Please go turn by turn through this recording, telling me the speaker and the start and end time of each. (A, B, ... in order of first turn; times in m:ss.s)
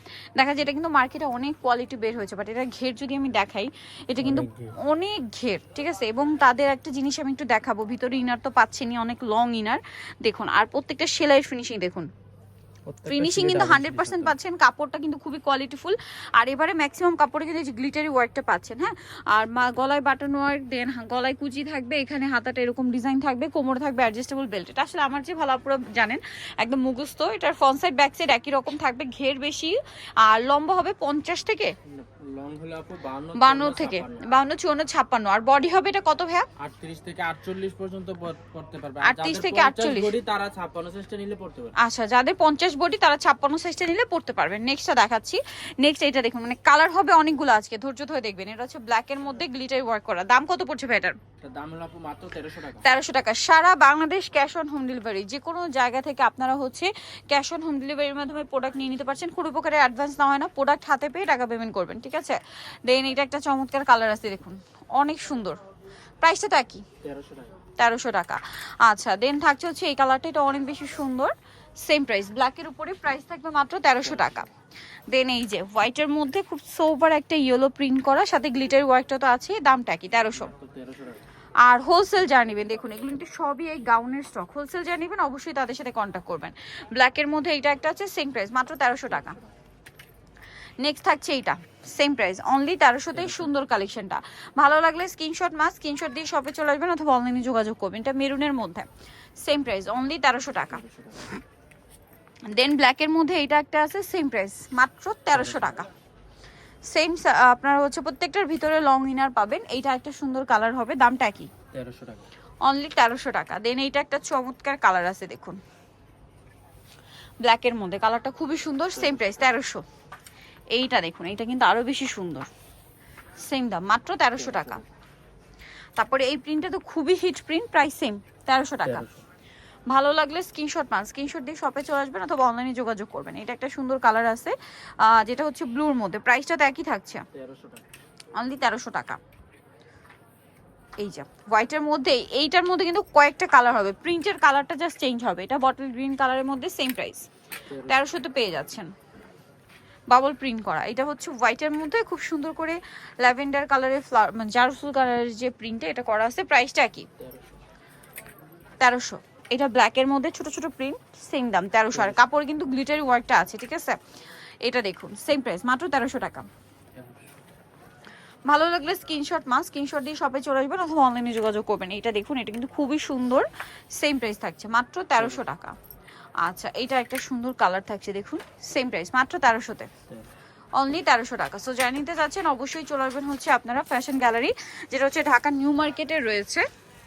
0:00.4-0:12.1 A
0:04.3-0:04.7 B
0:12.9-0:14.3 B
0:13.0-0:31.7 A
0:31.9-0:34.3 B
0:33.4-0:36.5 A
0:36.6-0:41.8 B
0:39.0-0:40.1 A
0:41.8-0:51.2 A
0:51.4-0:52.8 B
0:52.8-1:05.6 A
1:06.2-1:06.8 A
1:07.0-1:07.6 B
1:07.8-1:14.5 A
1:14.2-1:14.4 B
1:15.1-1:20.5 A
1:20.3-1:21.2 B
1:21.6-1:29.4 A
1:30.8-1:38.9 A
1:33.1-1:33.5 B
1:39.4-1:40.8 A
1:40.8-1:41.3 B
1:42.4-1:45.9 A
1:45.4-1:45.8 B
1:46.9-1:51.5 A
1:51.7-1:52.3 B
1:52.6-1:55.6 A
1:57.4-1:59.8 A
2:00.7-2:02.5 A
2:03.4-2:04.8 A
2:04.4-2:04.8 B
2:06.0-2:09.1 A
2:08.9-2:09.2 B
2:09.9-2:17.2 A
2:17.3-2:17.8 B
2:18.4-2:19.2 A
2:21.0-2:27.3 A
2:27.7-2:28.0 B
2:27.8-2:28.9 A
2:30.1-2:37.1 A
2:37.2-2:37.6 B
2:38.8-2:44.0 A
2:41.9-2:42.2 B
2:44.6-2:46.5 A
2:48.5-2:55.8 A
2:55.2-2:55.4 B
2:56.4-2:59.9 A
3:00.8-3:06.7 A